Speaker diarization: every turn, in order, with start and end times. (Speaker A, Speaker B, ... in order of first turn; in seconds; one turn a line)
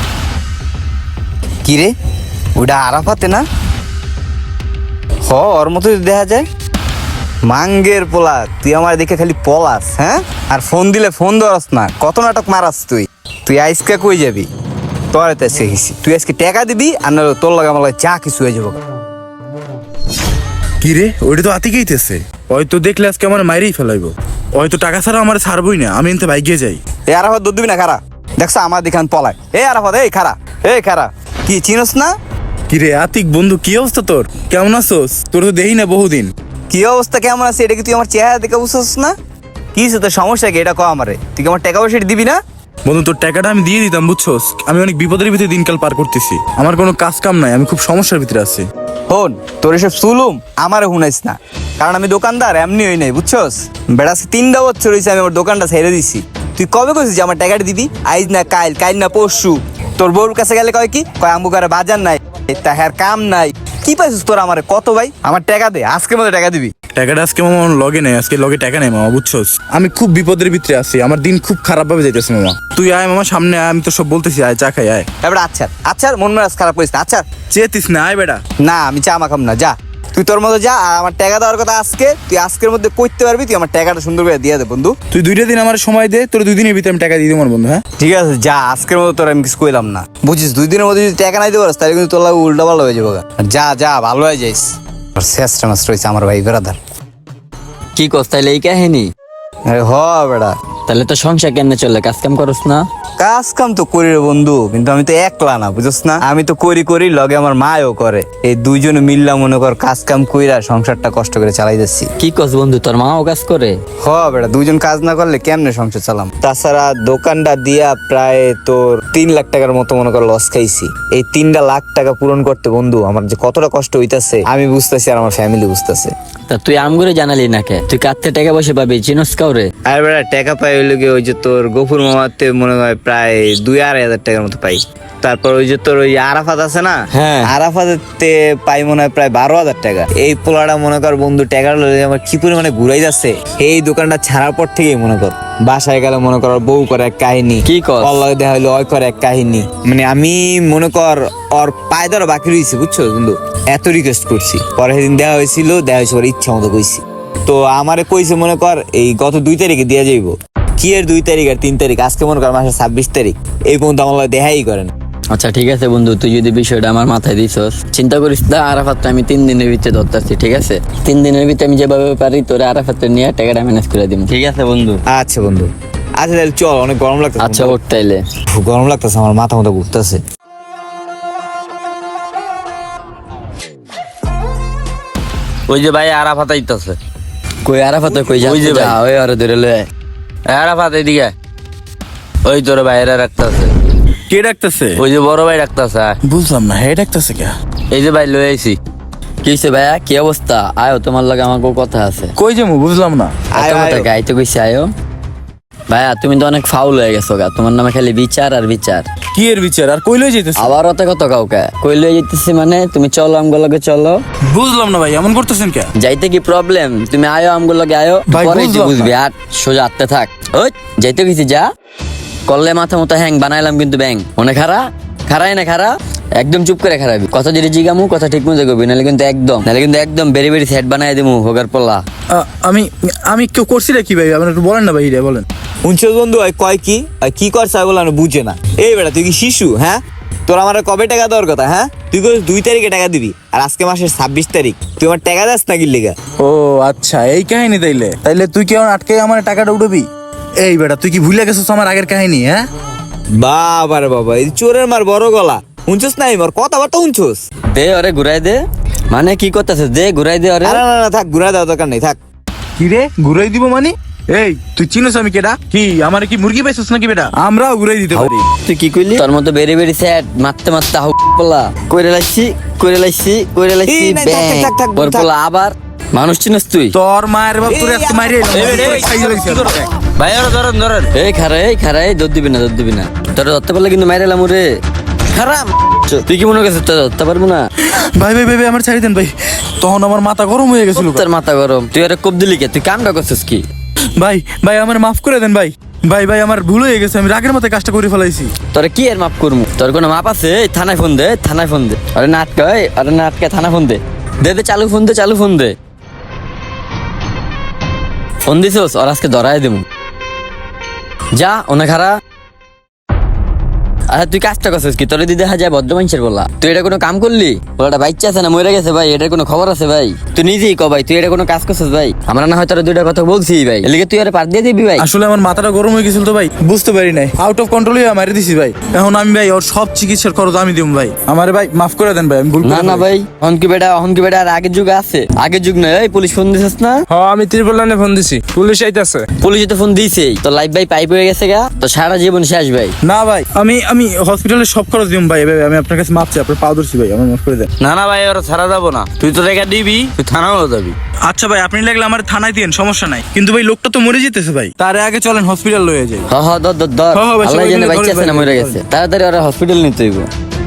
Speaker A: 1.6-1.9
Speaker A: 2.6-3.5
Speaker A: 5.3-6.5
Speaker A: 7.5-14.5
Speaker A: 15.1-18.8
Speaker B: 20.8-26.8
Speaker A: 27.1-32.1
Speaker B: 32.7-36.3
Speaker A: 36.7-39.1
Speaker A: 39.8-42.4
Speaker B: 42.9-48.7
Speaker A: 49.1-66.7
Speaker B: 67.0-75.1
Speaker A: 75.2-77.3
Speaker B: 77.5-78.4
Speaker A: 78.6-85.0
Speaker B: 85.1-87.8
Speaker A: 88.0-96.8
Speaker C: 98.0-99.1
Speaker A: 99.7-100.5
Speaker C: 100.9-102.8
Speaker A: 103.2-112.1
Speaker C: 112.2-113.8
Speaker A: 114.0-126.1
Speaker C: 126.5-129.7
Speaker A: 129.9-164.9
Speaker C: 137.1-137.5
Speaker C: 147.7-148.2
Speaker C: 165.3-175.0
Speaker A: 175.1-177.8
Speaker C: 177.4-178.2
Speaker A: 178.5-180.2
Speaker D: 185.7-187.0
Speaker C: 187.7-189.9
Speaker D: 188.3-189.0
Speaker D: 190.5-191.3
Speaker D: 192.4-193.7
Speaker B: 194.3-195.0
Speaker D: 195.0-196.2
Speaker B: 196.2-197.5
Speaker D: 197.9-198.8
Speaker C: 199.4-202.3
Speaker B: 202.4-203.5
Speaker A: 203.5-204.1
Speaker C: 203.6-204.9
Speaker C: 205.9-209.1
Speaker B: 209.3-210.7
Speaker C: 210.6-214.2
Speaker B: 214.5-215.9
Speaker C: 216.0-221.7
Speaker B: 218.3-219.2
Speaker C: 222.5-232.0
Speaker B: 232.3-235.4
Speaker A: 235.8-246.2
Speaker B: 246.4-250.1
Speaker B: 250.6-252.6
Speaker A: 253.4-257.4
Speaker C: 257.7-258.6
Speaker C: 259.1-260.8
Speaker A: 260.6-262.2
Speaker B: 262.8-268.5
Speaker C: 268.1-277.0
Speaker A: 273.9-275.3
Speaker B: 276.9-279.9
Speaker A: 277.7-279.1
Speaker D: 278.5-281.1
Speaker C: 281.1-284.7
Speaker C: 285.3-287.7
Speaker B: 287.8-291.2
Speaker C: 290.9-293.6
Speaker B: 294.2-298.5
Speaker C: 298.7-305.8
Speaker C: 308.5-309.8
Speaker C: 311.4-312.2
Speaker C: 314.1-325.1
Speaker B: 325.0-333.1
Speaker C: 332.6-337.1
Speaker E: 337.2-339.2
Speaker B: 337.2-338.6
Speaker C: 339.4-342.9
Speaker B: 343.0-347.7
Speaker D: 347.8-351.0
Speaker B: 351.3-356.3
Speaker C: 356.3-360.3
Speaker B: 357.1-358.8